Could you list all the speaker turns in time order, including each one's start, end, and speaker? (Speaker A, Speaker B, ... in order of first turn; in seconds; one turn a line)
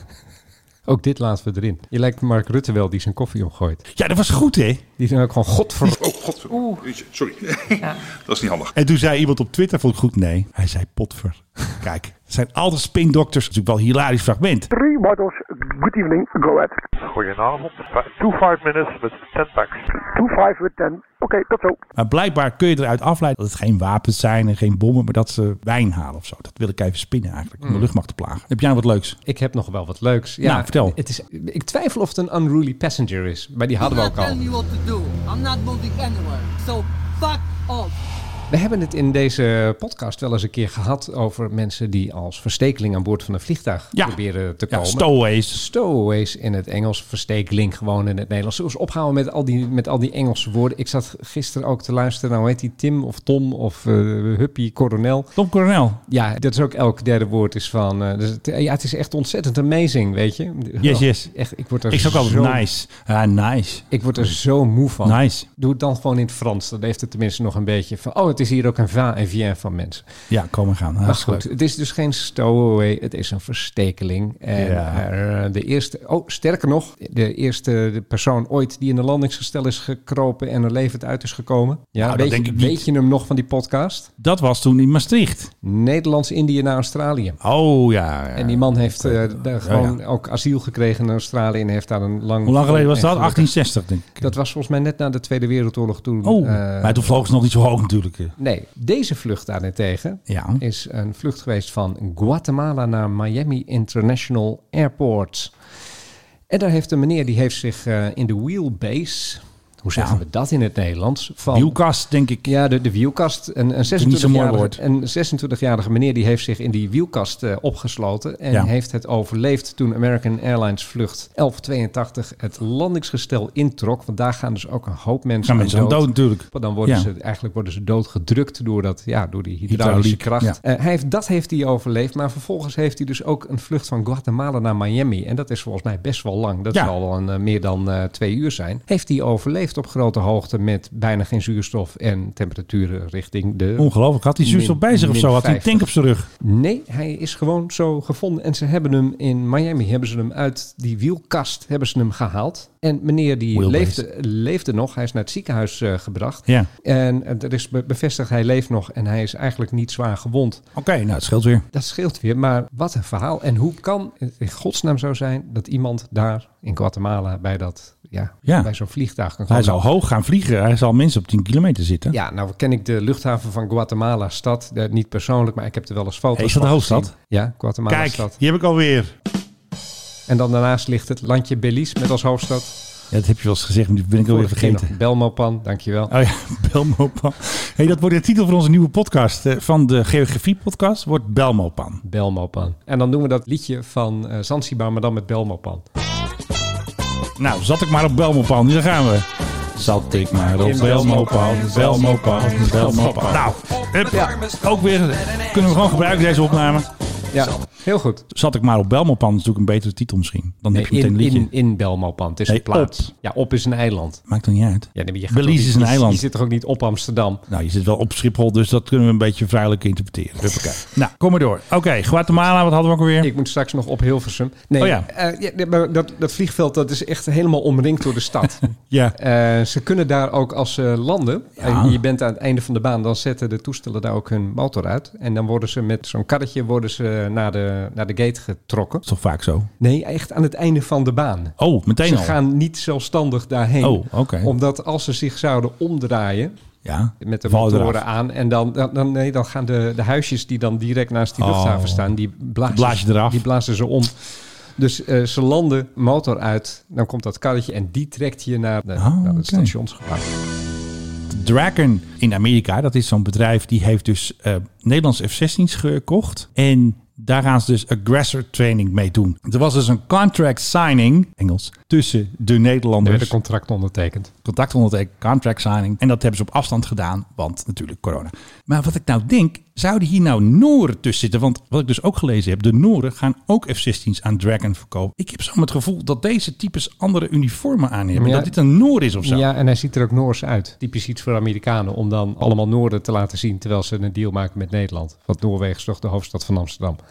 Speaker A: 0.9-3.8
Speaker B: 3.9-4.8
Speaker A: 5.0-6.0
Speaker C: 5.8-8.7
Speaker B: 8.7-14.7
Speaker D: 14.7-16.8
Speaker E: 17.0-19.9
Speaker D: 19.9-21.8
Speaker B: 21.9-29.2
Speaker A: 27.6-27.9
Speaker A: 29.2-34.4
Speaker B: 30.4-30.9
Speaker F: 33.8-37.9
Speaker A: 38.5-55.3
Speaker B: 44.7-45.6
Speaker B: 55.4-56.0
Speaker A: 56.1-62.6
Speaker B: 60.8-61.3
Speaker B: 61.9-64.3
Speaker A: 63.9-70.0
Speaker B: 65.0-65.5
Speaker B: 70.3-71.5
Speaker A: 71.0-84.1
Speaker B: 74.5-75.0
Speaker B: 82.0-82.8
Speaker B: 84.2-85.5
Speaker A: 85.6-87.4
Speaker B: 87.4-90.0
Speaker A: 88.3-93.5
Speaker B: 92.4-94.3
Speaker A: 94.2-97.2
Speaker B: 96.2-98.3
Speaker A: 98.4-105.5
Speaker B: 100.3-100.6
Speaker A: 106.5-111.8
Speaker B: 111.5-112.5
Speaker A: 112.4-145.9
Speaker B: 113.9-114.8
Speaker B: 125.4-127.1
Speaker B: 129.7-130.6
Speaker B: 143.8-146.3
Speaker A: 146.4-160.6
Speaker B: 153.5-154.0
Speaker B: 160.7-161.6
Speaker A: 161.7-169.8
Speaker B: 169.5-172.2
Speaker A: 172.1-178.3
Speaker B: 176.3-177.1
Speaker B: 177.9-179.1
Speaker A: 180.3-182.8
Speaker B: 183.1-184.9
Speaker A: 184.3-186.1
Speaker B: 186.1-192.0
Speaker A: 192.0-195.8
Speaker B: 197.4-206.9
Speaker A: 200.6-203.5
Speaker A: 204.1-204.4
Speaker A: 207.3-208.2
Speaker B: 208.3-211.5
Speaker A: 210.7-214.2
Speaker B: 212.5-213.1
Speaker B: 214.3-216.2
Speaker A: 214.9-217.4
Speaker B: 217.5-223.3
Speaker A: 223.2-239.0
Speaker B: 224.8-225.1
Speaker B: 228.9-229.2
Speaker B: 231.6-232.0
Speaker B: 239.1-239.7
Speaker A: 239.8-246.5
Speaker B: 241.6-242.4
Speaker B: 243.8-244.5
Speaker B: 246.8-248.0
Speaker A: 247.2-260.3
Speaker B: 251.4-252.1
Speaker B: 252.7-253.4
Speaker B: 259.0-259.7
Speaker B: 261.3-273.3
Speaker A: 273.0-274.3
Speaker B: 274.4-289.4
Speaker A: 288.1-288.5
Speaker A: 289.2-297.0